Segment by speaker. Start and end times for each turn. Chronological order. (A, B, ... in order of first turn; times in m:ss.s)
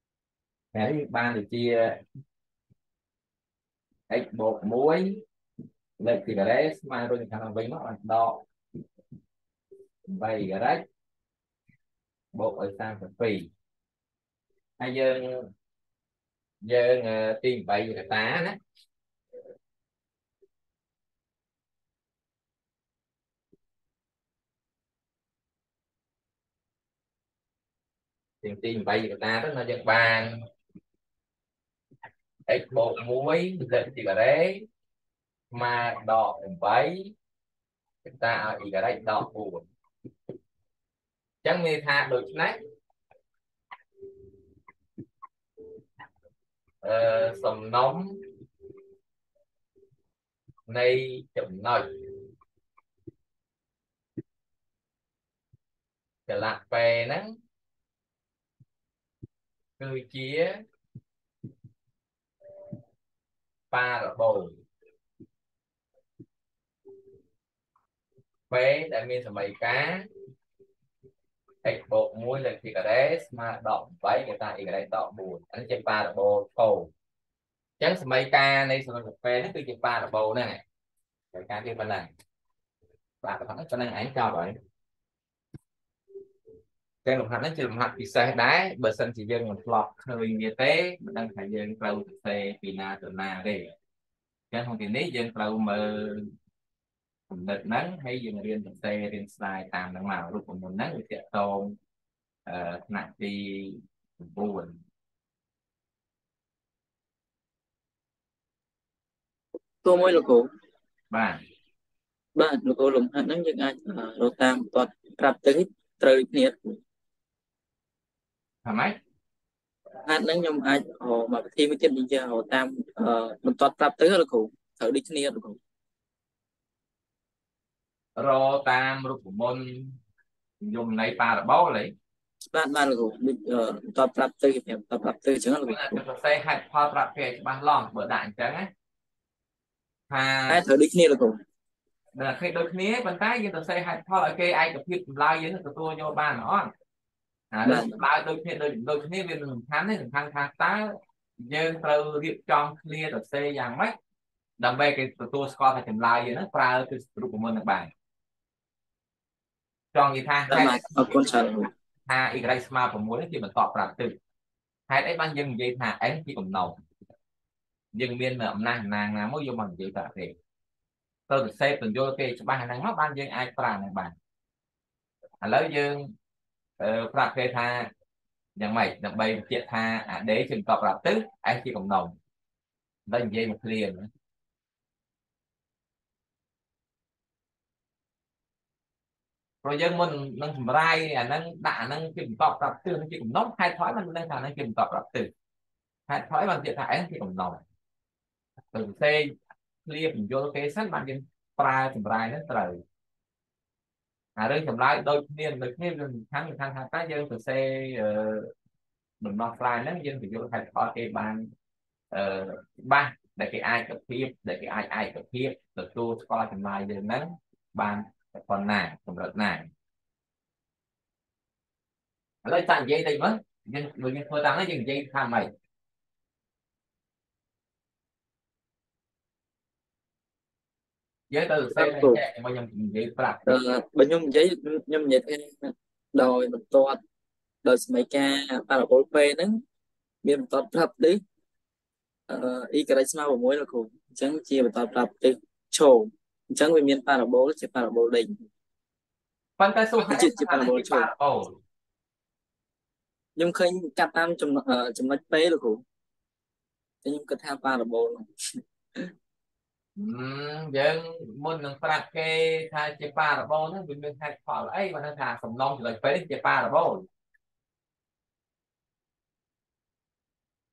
0:00.7-0:02.0 A
0:04.1-0:05.2 A
0:06.0-0:08.4 A
0:10.1-0:10.8 A
0:12.3-0:13.5 A
0:14.8-0:15.5 A
0:16.6-0:18.6 A
0:28.4-0:30.4 A
0:32.5-0:34.6 A
0:35.5-0:37.1 A
0:38.0-0:39.7 A
0:41.4-0:42.6 A
0:46.8-0:48.2 A
0:50.7-0:51.9 A
0:56.3-0:57.4 A
0:59.8-1:00.6 A
1:03.7-1:04.6 A
1:08.5-1:10.1 A
1:11.6-1:16.9 A
1:17.8-1:20.6 A
1:21.3-1:22.1 A
1:23.2-1:24.6 A
1:27.0-1:33.7 A
1:34.5-1:36.3 A
1:37.3-1:41.8 A
1:42.4-1:44.8 A
1:49.8-1:50.5 B
1:51.1-1:51.4 A
1:52.3-1:56.8 B
1:58.6-1:59.0 A
2:00.0-2:05.6 B
2:08.2-2:10.0 A
2:10.6-2:11.9 A
2:12.5-2:16.0 B
2:15.7-2:18.7 A
2:20.1-2:20.6 A
2:20.5-2:21.4 B
2:22.1-2:26.7 A
2:27.5-2:33.9 A
2:27.6-2:28.0 B
2:34.6-2:37.9 A
2:39.9-2:40.8 A
2:40.5-2:41.7 B
2:42.1-2:44.2 A
2:44.9-2:46.8 A
2:47.9-2:50.3 A
2:51.3-2:54.1 A
2:55.4-2:56.1 A
2:56.8-2:57.9 A
2:58.6-3:02.1 A
3:03.1-3:04.1 A
3:09.6-3:15.3 A
3:16.1-3:17.6 A
3:18.7-3:19.3 A
3:19.8-3:22.8 A
3:24.4-3:28.5 A
3:29.2-3:31.5 A
3:32.1-3:39.7 A
3:42.4-3:45.5 A
3:51.3-3:53.6 A
3:51.7-3:52.2 B
3:53.4-3:57.0 B
3:57.6-3:59.6 B
4:00.2-4:01.2 B
4:02.3-4:08.3 B
4:09.6-4:11.5 A
4:10.0-4:11.1 B
4:13.4-4:15.8 B
4:17.0-4:18.3 B
4:20.0-4:27.1 A